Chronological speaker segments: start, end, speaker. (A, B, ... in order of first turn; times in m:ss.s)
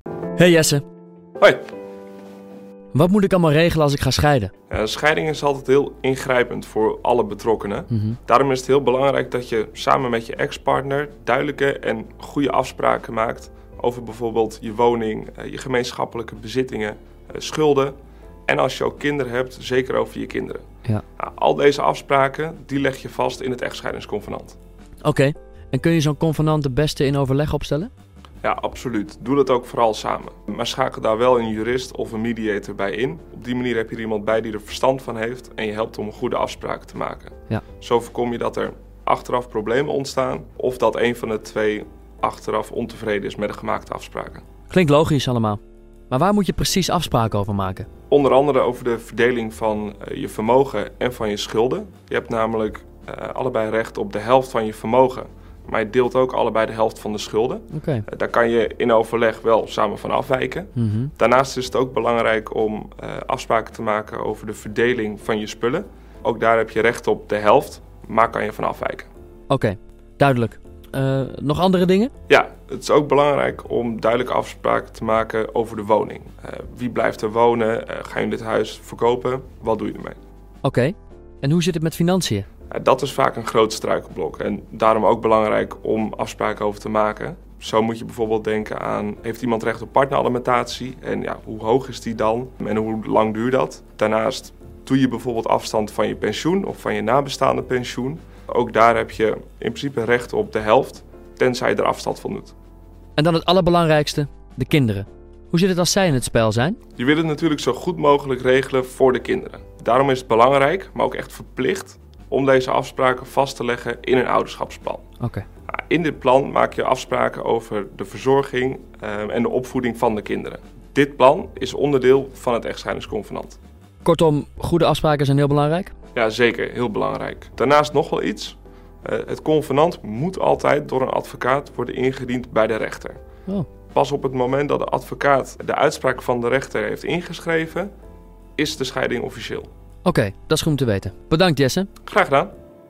0:00.4-0:00.8 A
0:02.9-0:04.5 A
0:04.7-0:24.6 B
0:07.9-0:08.2 A
0:25.0-0:27.9 A
0:28.4-0:44.4 B
0:44.7-0:47.9 A
0:48.1-1:09.1 B
0:57.7-0:58.0 A
1:00.8-1:01.1 A
1:09.5-1:12.1 A
1:12.3-1:20.2 B
1:20.6-1:22.4 A
1:22.7-1:42.5 B
1:43.2-1:46.8 A
1:47.0-1:55.0 B
1:55.2-1:55.4 A
1:55.7-2:03.6 B
2:04.0-2:05.9 A
2:06.1-2:13.2 B
2:13.9-2:17.9 B
2:18.6-2:19.7 B
2:20.0-2:21.9 A
2:22.0-2:22.5 B